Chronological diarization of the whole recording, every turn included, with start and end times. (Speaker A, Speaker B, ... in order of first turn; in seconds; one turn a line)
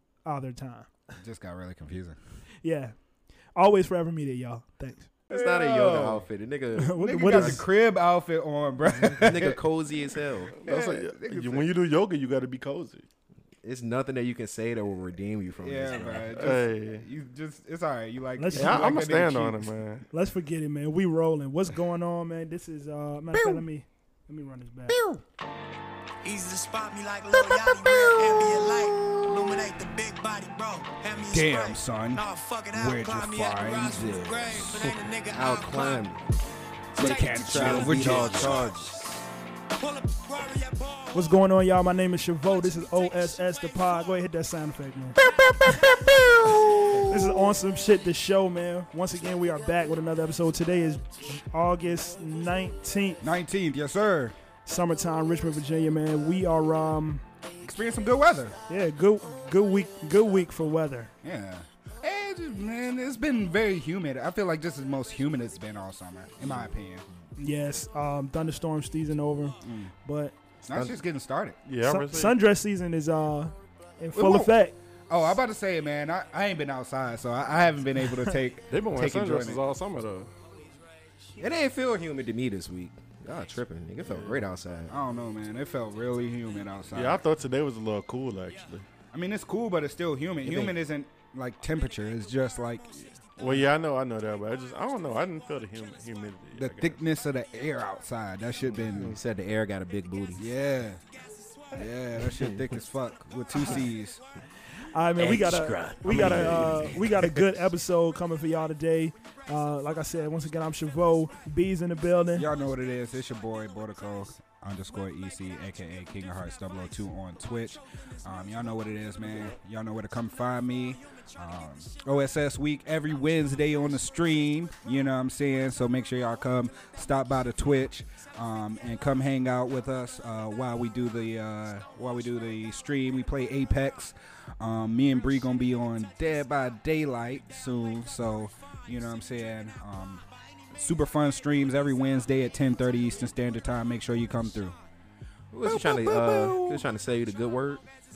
Speaker A: 0.2-1.0
Speaker B: 1.2-2.2
Speaker A: 2.6-3.0
Speaker A: 3.5-5.1
Speaker B: 5.3-6.3
Speaker C: 5.3-7.6
Speaker A: 6.8-7.7
Speaker B: 7.0-9.6
Speaker C: 9.0-10.6
Speaker D: 10.5-13.1
Speaker B: 10.6-11.7
Speaker C: 13.6-16.4
Speaker B: 15.6-19.7
Speaker D: 16.3-17.1
Speaker A: 18.4-18.9
Speaker D: 18.5-20.1
Speaker A: 20.1-25.0
Speaker B: 23.3-23.6
Speaker B: 24.9-25.2
Speaker E: 26.3-36.0
Speaker B: 27.5-29.7
Speaker B: 31.2-34.9
Speaker C: 35.3-36.3
Speaker B: 37.0-38.7
Speaker C: 37.0-39.0
Speaker E: 37.0-39.0
Speaker E: 39.8-41.1
Speaker A: 41.1-45.8
Speaker E: 42.6-43.9
Speaker B: 45.2-47.5
Speaker A: 47.0-53.3
Speaker B: 53.2-54.4
Speaker A: 54.7-57.2
Speaker B: 57.6-58.6
Speaker A: 58.7-61.1
Speaker B: 61.2-67.1
Speaker A: 67.4-70.4
Speaker B: 69.6-69.9
Speaker B: 70.7-71.6
Speaker C: 70.7-71.0
Speaker D: 71.7-72.4
Speaker A: 71.8-74.8
Speaker B: 74.1-74.6
Speaker B: 75.1-79.6
Speaker D: 78.7-80.3
Speaker C: 81.4-85.0
Speaker D: 84.0-84.5
Speaker B: 84.9-87.2
Speaker D: 86.9-88.9
Speaker B: 89.1-93.7
Speaker C: 90.4-90.8
Speaker D: 93.4-97.0
Speaker B: 96.6-99.2
Speaker C: 98.8-100.5
Speaker B: 100.4-101.0
Speaker B: 101.7-104.2
Speaker C: 102.3-102.6
Speaker A: 104.7-112.5
Speaker C: 105.2-107.4
Speaker B: 106.2-106.7
Speaker B: 112.3-144.8
Speaker D: 119.3-119.5
Speaker C: 145.5-147.8
Speaker B: 145.6-146.9